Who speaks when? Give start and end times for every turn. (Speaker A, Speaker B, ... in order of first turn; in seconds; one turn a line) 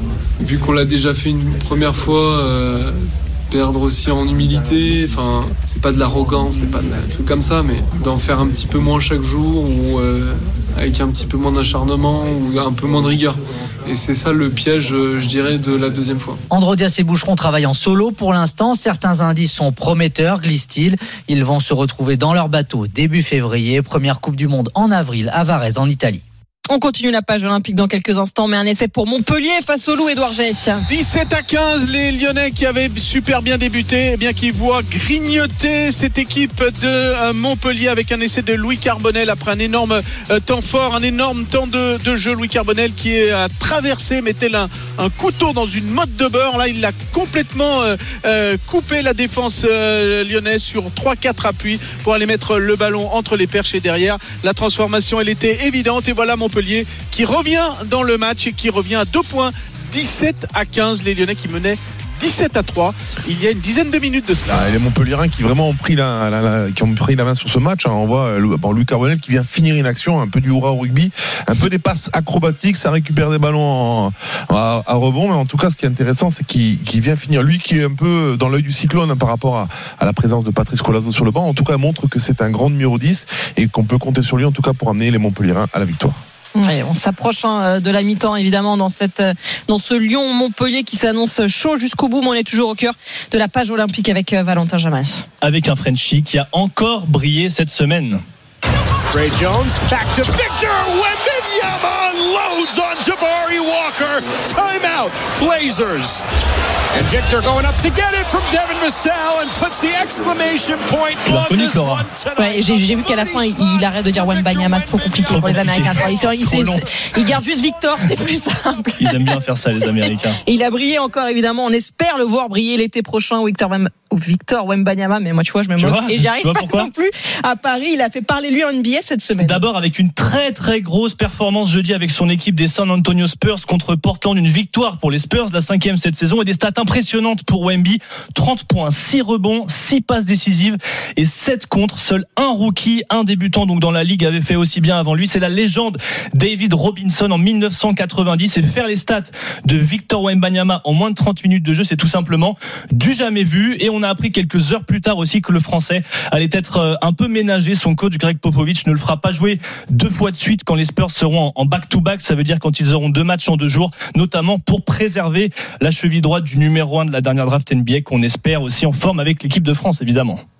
Speaker A: 0.4-3.0
Speaker A: 3.5-16.4
Speaker B: 16.5-26.2
Speaker C: 26.7-30.8
Speaker D: 30.9-64.8
Speaker E: 64.5-86.2
Speaker C: 86.5-95.2
Speaker F: 95.4-98.2
Speaker G: 99.1-106.2
Speaker G: 106.9-116.3
Speaker F: 111.2-112.1
Speaker C: 112.3-119.2
Speaker F: 115.3-116.8
Speaker F: 119.0-120.4
Speaker C: 120.0-129.6
Speaker F: 125.8-126.9
Speaker F: 129.4-170.4